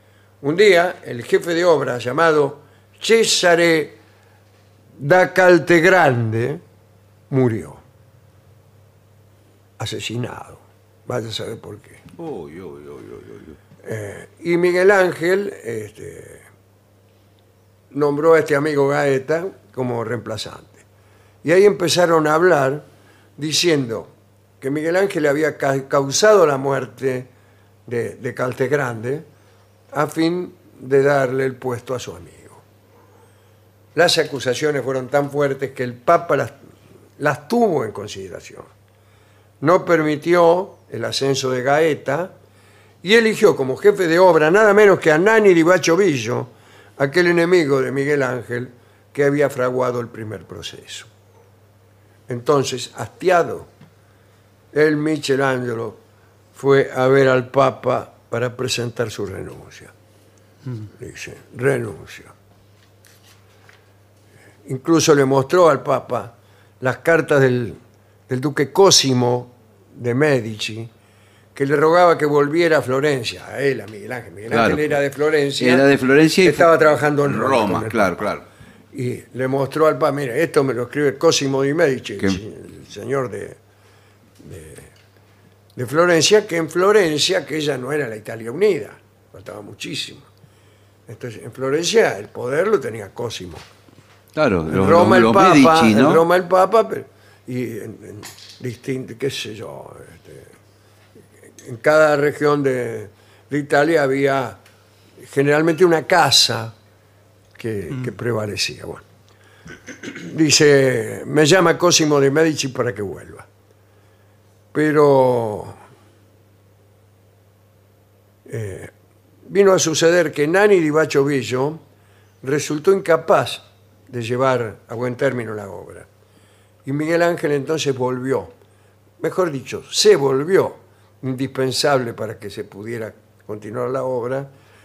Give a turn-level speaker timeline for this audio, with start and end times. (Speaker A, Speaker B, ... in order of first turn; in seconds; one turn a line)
Speaker A: 0.4-4.0
Speaker A: 5.0-6.6
Speaker A: 7.3-7.8
Speaker A: 9.8-12.0
Speaker B: 12.2-13.6
Speaker A: 13.8-16.4
Speaker A: 17.9-20.8
Speaker A: 21.4-22.9
Speaker A: 23.4-27.3
Speaker A: 27.9-29.3
Speaker A: 29.9-32.6
Speaker A: 34.0-36.5
Speaker A: 37.2-38.7
Speaker A: 39.6-42.3
Speaker A: 43.0-51.1
Speaker A: 52.3-53.7
Speaker A: 54.7-56.0
Speaker A: 56.5-59.9
Speaker A: 61.0-62.3
Speaker A: 64.7-70.9
Speaker A: 71.5-75.9
Speaker B: 74.5-75.0
Speaker B: 75.6-76.7
Speaker A: 76.4-78.3
Speaker B: 77.2-78.5
Speaker A: 78.9-83.6
Speaker A: 84.4-84.9
Speaker A: 85.8-90.3
Speaker A: 91.1-93.6
Speaker B: 94.3-96.2
Speaker A: 94.7-100.5
Speaker A: 101.6-104.6
Speaker A: 105.2-106.7
Speaker A: 107.5-109.0
Speaker A: 110.0-113.5
Speaker A: 114.7-115.8
Speaker A: 118.5-118.9
Speaker A: 119.5-121.8
Speaker A: 122.4-126.1
Speaker A: 126.8-128.6
Speaker A: 129.2-134.5